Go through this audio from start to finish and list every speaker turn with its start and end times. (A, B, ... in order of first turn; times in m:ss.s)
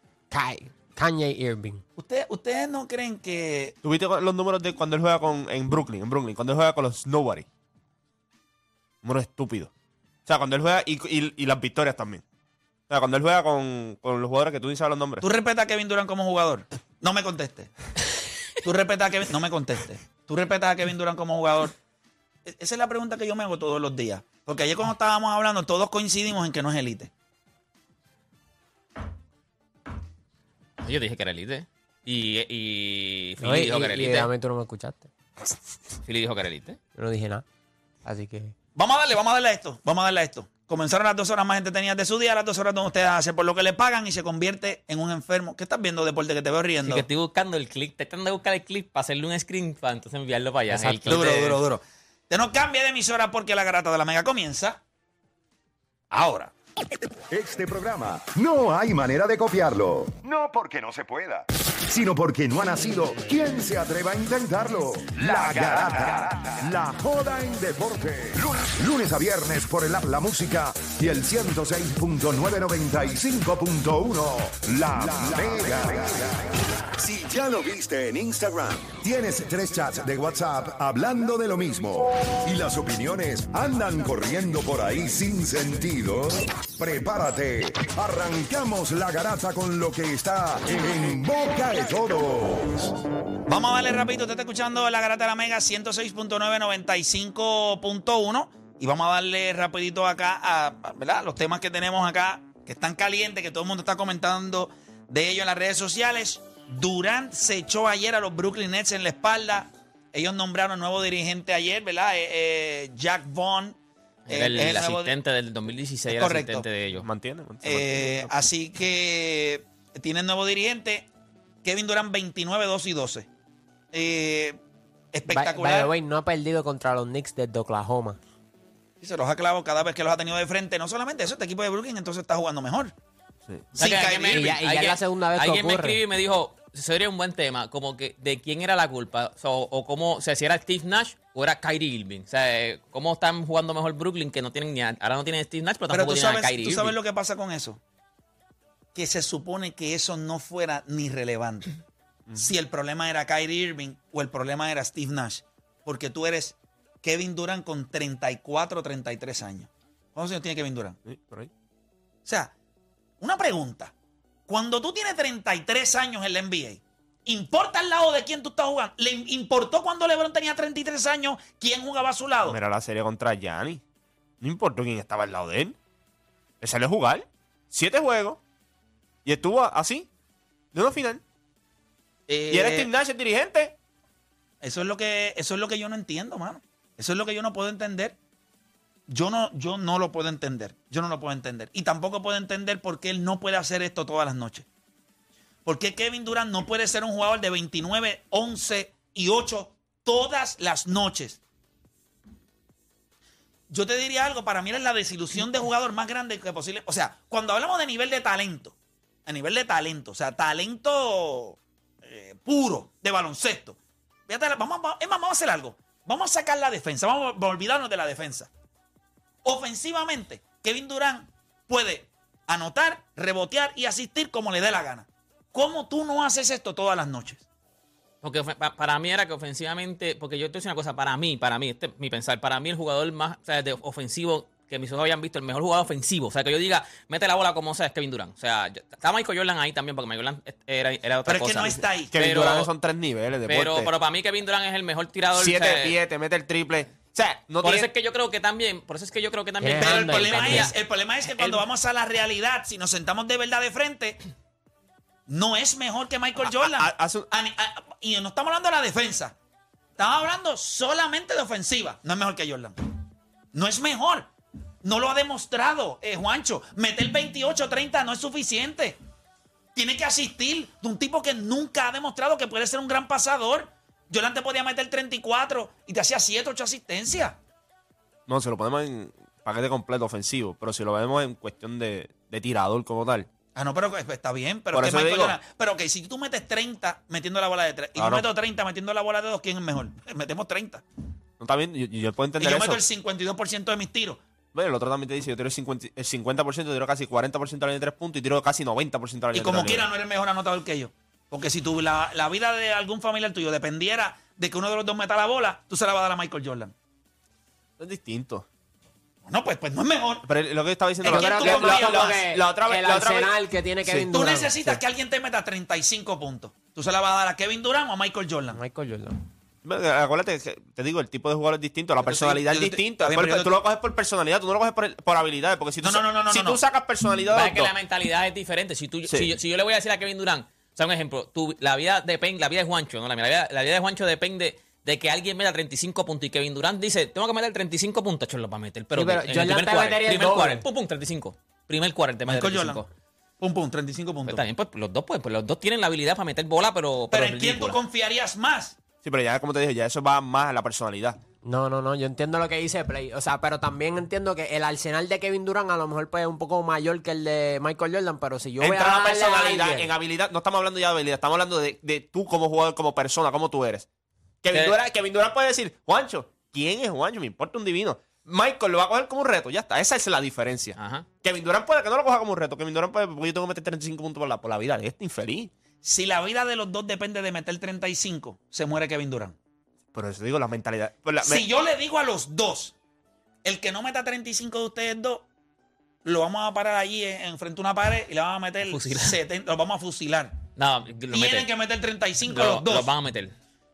0:00.3-0:01.8 A
0:02.0-0:03.8 B
0:03.8-0:07.4 C
0:09.0-0:09.7 C
0:10.2-0:12.2 C
0:12.9-0:15.2 C
0:15.2-0:17.7 B
0:18.6-0:21.7 B
0:22.4-0:27.1 B
0:30.8-0:34.3 D
0:33.4-0:35.1 A
0:36.0-0:36.8 D
0:37.0-0:37.4 A
0:38.0-0:38.5 A
0:38.8-0:47.0 B
0:46.8-0:51.6 D
0:50.7-0:51.2 A
0:51.0-0:54.8 B
0:56.1-0:56.5 B
0:57.3-1:16.4 E
1:17.0-1:32.9 E
1:33.5-1:53.8 B
1:54.3-1:57.1 D
1:54.3-1:55.1 B
1:56.1-1:56.6 B
1:57.0-1:58.3 C
1:57.6-2:01.0 B
2:01.6-2:03.3 B
2:03.9-2:04.6 B
2:05.1-2:05.9 B
2:05.3-2:08.2 A
2:09.0-2:12.9 B
2:13.5-2:13.7 C
2:13.7-2:14.6 B
2:13.8-2:27.0 D
2:14.3-2:16.0 A
2:25.9-2:27.8 B
2:28.9-2:31.7 B
2:32.4-2:41.0 B
2:41.0-2:41.5 C
2:42.2-2:42.5 B
2:43.2-2:43.9 B
2:44.5-2:52.6 B
2:52.4-2:53.8 C
2:54.4-2:55.8 C
2:56.6-2:58.4 C
2:59.2-3:00.1 C
3:00.7-3:01.2 C
3:02.3-3:02.9 B
3:02.5-3:03.7 C
3:04.6-3:08.2 B
3:09.1-3:14.6 B
3:15.6-3:21.4 B
3:23.7-3:38.5 B
3:39.4-3:47.4 B
3:48.2-4:02.7 D
4:01.2-4:02.1 B
4:02.1-4:03.9 C
4:03.5-4:05.9 D
4:05.3-4:07.9 C
4:07.6-4:10.7 D
4:09.6-4:10.7 A
4:09.8-4:14.2 B
4:11.3-4:11.6 D
4:15.3-4:19.3 B
4:16.6-4:17.3 C
4:20.0-4:22.8 B
4:23.5-4:24.3 B
4:24.8-4:29.0 B
4:29.7-4:37.4 B
4:38.3-4:43.3 C
4:43.5-4:50.8 B
4:44.7-4:45.4 C
4:48.0-4:48.3 C
4:51.4-4:52.8 C
4:52.4-4:54.2 B
4:54.5-4:59.9 C
4:59.3-5:06.7 B
5:07.8-5:08.4 C
5:09.2-5:10.3 B
5:10.2-5:13.3 C
5:11.0-5:12.2 B
5:11.0-5:14.8 A
5:14.1-5:18.6 B
5:18.5-5:19.2 A
5:19.6-5:27.7 C
5:22.0-5:23.6 B
5:25.8-5:26.6 B
5:27.3-5:42.9 D
5:29.1-5:29.3 C
5:38.9-5:40.6 A
5:42.2-5:42.8 B
5:43.4-5:44.4 B
5:44.2-5:47.8 D
5:47.1-5:48.8 B
5:49.0-5:51.2 C
5:51.4-5:59.9 A
5:58.6-6:03.8 C
6:04.4-6:15.5 C
6:10.8-6:11.1 D
6:15.8-6:19.4 B
6:19.9-6:21.4 C
6:21.2-6:22.7 B
6:23.4-6:25.2 B
6:26.0-6:30.4 B
6:28.6-6:29.2 D
6:30.6-6:31.5 D
6:31.1-6:32.9 B
6:32.2-6:33.3 D